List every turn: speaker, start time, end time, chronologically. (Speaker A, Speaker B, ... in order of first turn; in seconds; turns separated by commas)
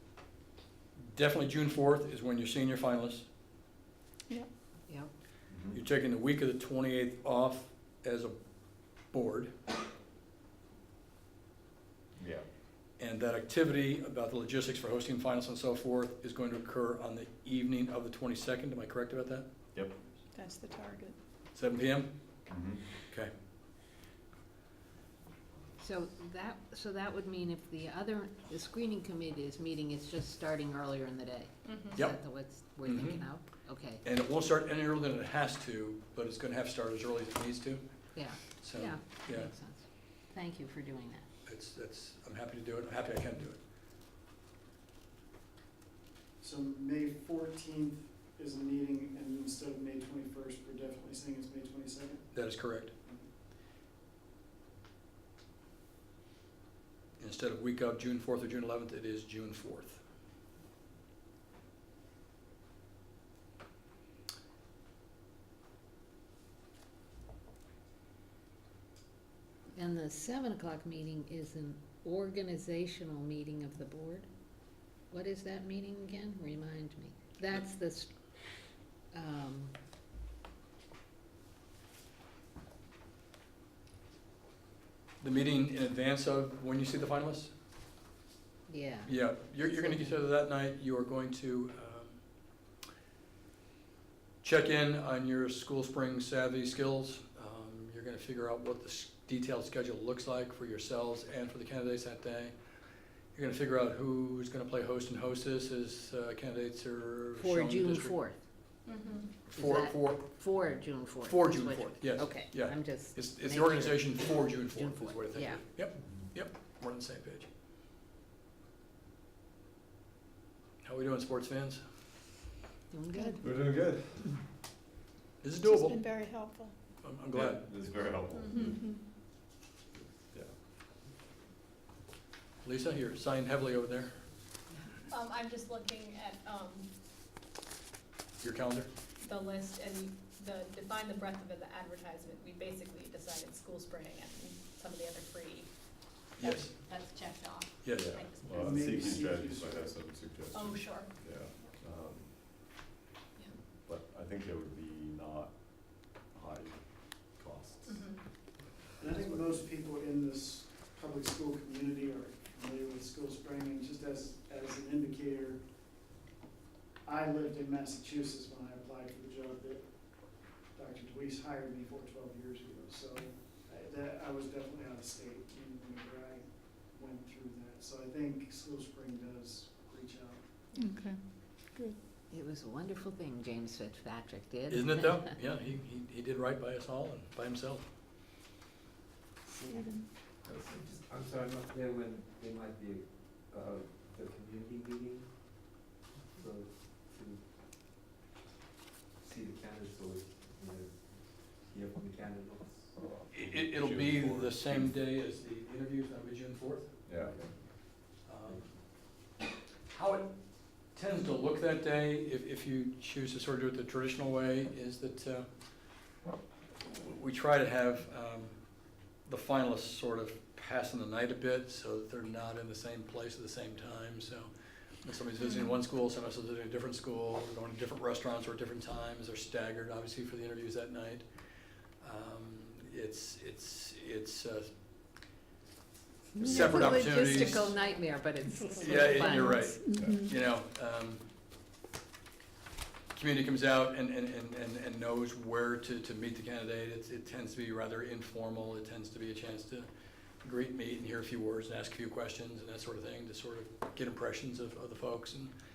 Speaker A: 1.0-3.3, Speaker A: 5.7-9.5, Speaker A: 13.0-19.5, Speaker B: 20.3-21.2, Speaker A: 21.5-22.1, Speaker C: 25.8-34.0, Speaker D: 31.6-32.0, Speaker A: 31.9-32.2, Speaker A: 32.8-33.3, Speaker A: 34.0-39.5, Speaker C: 38.1-41.3, Speaker A: 41.5-43.6, Speaker E: 46.4-53.3, Speaker A: 52.3-52.9, Speaker A: 57.2-60.0, Speaker C: 69.8-74.3, Speaker C: 75.1-78.1, Speaker C: 79.1-79.7, Speaker A: 85.2-87.5, Speaker C: 88.7-90.1, Speaker A: 89.1-92.2, Speaker A: 94.4-102.6, Speaker A: 103.3-108.2, Speaker C: 107.4-108.4, Speaker D: 108.8-109.3, Speaker A: 109.5-117.5, Speaker C: 109.5-115.8, Speaker A: 120.8-121.8, Speaker C: 122.9-123.4, Speaker F: 123.4-124.4, Speaker A: 125.4-126.0, Speaker B: 125.6-126.8, Speaker A: 127.0-127.6, Speaker F: 127.3-128.8, Speaker D: 128.3-128.9, Speaker B: 128.6-129.0, Speaker A: 132.6-134.2, Speaker D: 135.1-136.9, Speaker A: 138.4-138.9, Speaker D: 139.2-148.8, Speaker A: 146.4-146.7, Speaker A: 147.8-148.1, Speaker F: 148.0-152.3, Speaker E: 148.5-150.1, Speaker D: 150.5-151.7, Speaker F: 153.9-158.2, Speaker D: 157.8-158.5, Speaker E: 159.0-165.6, Speaker F: 159.0-159.6, Speaker E: 167.0-180.5, Speaker D: 180.7-181.0, Speaker B: 180.8-182.0, Speaker C: 182.3-185.3, Speaker A: 184.7-187.8, Speaker G: 189.7-189.9, Speaker B: 189.7-190.0, Speaker G: 190.4-195.3, Speaker G: 196.3-197.4, Speaker G: 199.2-203.2, Speaker A: 203.3-207.0, Speaker F: 203.7-204.9, Speaker F: 207.1-207.4, Speaker G: 207.2-207.7, Speaker A: 208.2-208.8, Speaker G: 208.4-208.7, Speaker A: 209.9-215.5, Speaker A: 216.9-218.7, Speaker A: 219.2-224.5, Speaker A: 225.0-231.3, Speaker D: 225.4-225.8, Speaker A: 232.0-234.7, Speaker A: 236.4-237.7, Speaker C: 236.5-239.8, Speaker A: 238.8-241.2, Speaker B: 239.7-240.3, Speaker A: 243.1-249.9, Speaker A: 250.4-255.5